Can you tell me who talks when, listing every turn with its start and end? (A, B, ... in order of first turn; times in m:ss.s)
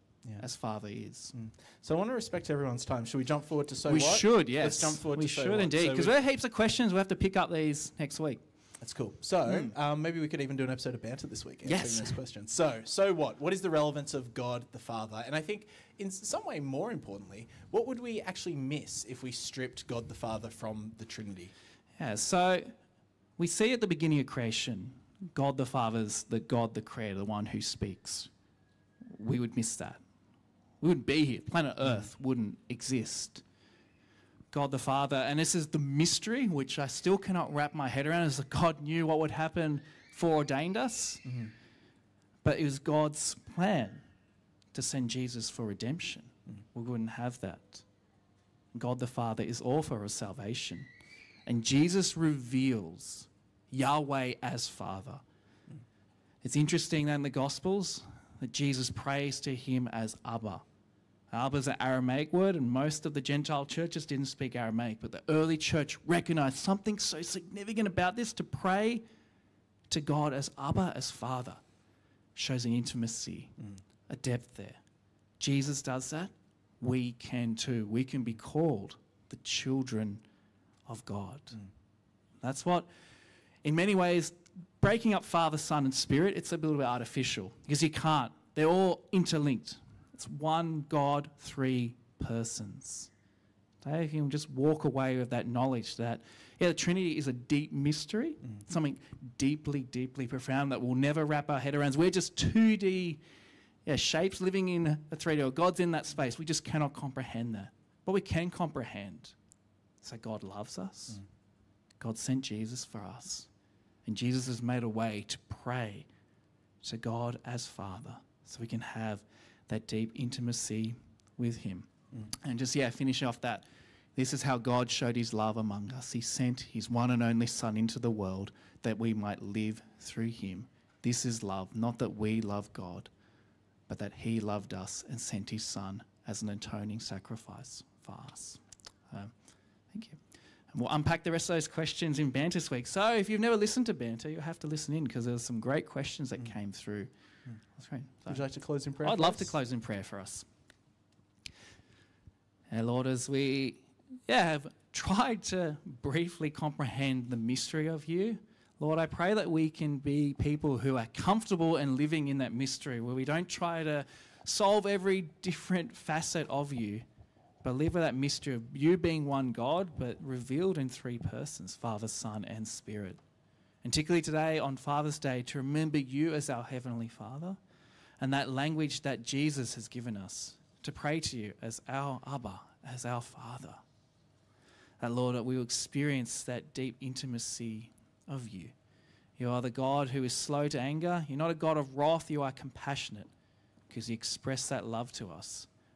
0:00.4-0:01.3 A
0:01.3-0:06.2 B
0:03.9-0:08.4 A
0:08.8-0:21.5 B
0:09.5-0:09.7 A
0:11.6-0:12.2 A
0:22.0-0:22.8 A
0:23.4-0:28.3 A
0:29.1-0:30.0 A
0:30.8-0:33.4 A
0:34.5-0:41.2 A
0:41.2-0:41.5 B
0:42.4-0:44.0 A
0:44.7-0:47.8 A
0:48.7-0:50.9 A
0:51.4-0:55.2 A
0:56.4-1:00.6 A
1:01.3-1:09.0 A
1:09.9-1:11.6 A
1:12.4-1:13.5 A
1:14.1-1:14.8 A
1:15.4-1:20.2 A
1:20.9-1:21.6 A
1:22.4-1:22.9 A
1:23.6-1:33.1 A
1:33.8-1:43.2 A
1:43.8-1:49.3 A
1:50.0-1:51.2 A
1:52.0-1:53.5 A
1:54.0-1:56.0 A
1:56.8-2:01.9 A
2:02.4-2:13.1 A
2:13.9-2:19.3 A
2:19.9-2:20.2 A
2:20.7-2:27.1 A
2:27.7-2:28.4 A
2:28.3-2:29.5 B
2:29.0-2:30.4 A
2:32.7-2:47.0 A
2:47.6-2:53.2 A
2:53.8-2:57.6 A
2:58.2-3:03.8 A
3:05.0-3:08.7 A
3:09.4-3:13.3 A
3:13.9-3:15.7 A